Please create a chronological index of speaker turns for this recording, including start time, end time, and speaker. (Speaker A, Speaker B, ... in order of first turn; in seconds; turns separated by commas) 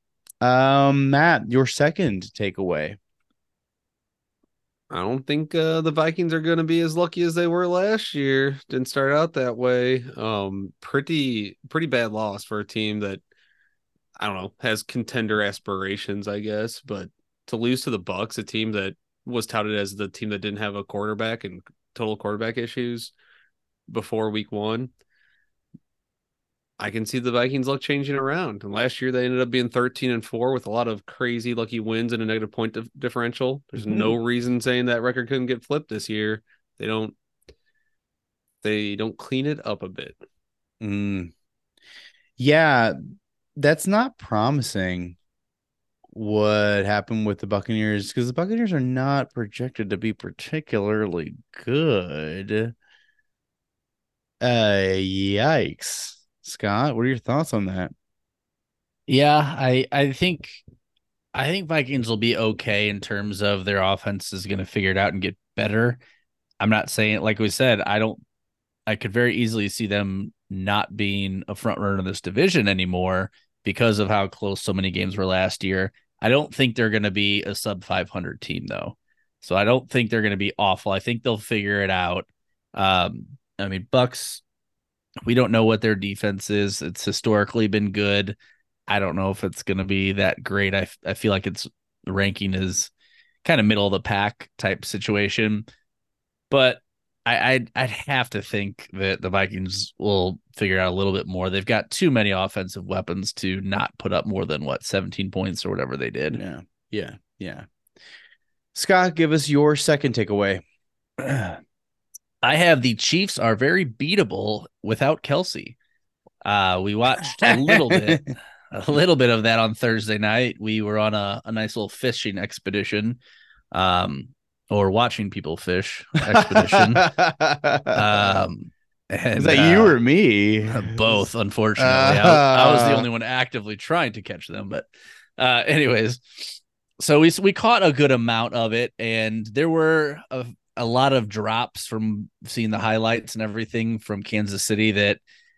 Speaker A: 0.4-3.0, Speaker B: 4.9-13.2, Speaker B: 14.2-23.1, Speaker B: 23.9-24.9, Speaker B: 26.8-37.2, Speaker A: 33.9-34.1, Speaker B: 38.6-40.2, Speaker A: 40.8-41.3, Speaker A: 42.4-43.0, Speaker A: 43.6-45.2, Speaker A: 46.1-52.7, Speaker A: 54.4-57.9, Speaker C: 59.1-60.6, Speaker C: 61.3-66.0, Speaker C: 66.6-68.2, Speaker C: 68.9-84.4, Speaker C: 85.3-88.4, Speaker C: 88.9-92.9, Speaker C: 93.4-95.7, Speaker C: 96.5-106.4, Speaker A: 106.3-107.7, Speaker A: 108.8-110.6, Speaker C: 111.2-111.6, Speaker C: 112.4-115.8, Speaker C: 116.5-123.2, Speaker A: 117.4-118.2, Speaker C: 123.7-127.1, Speaker A: 126.3-128.2, Speaker C: 127.9-130.0, Speaker A: 129.4-131.2, Speaker C: 130.7-134.9, Speaker A: 131.8-133.1, Speaker C: 135.4-145.2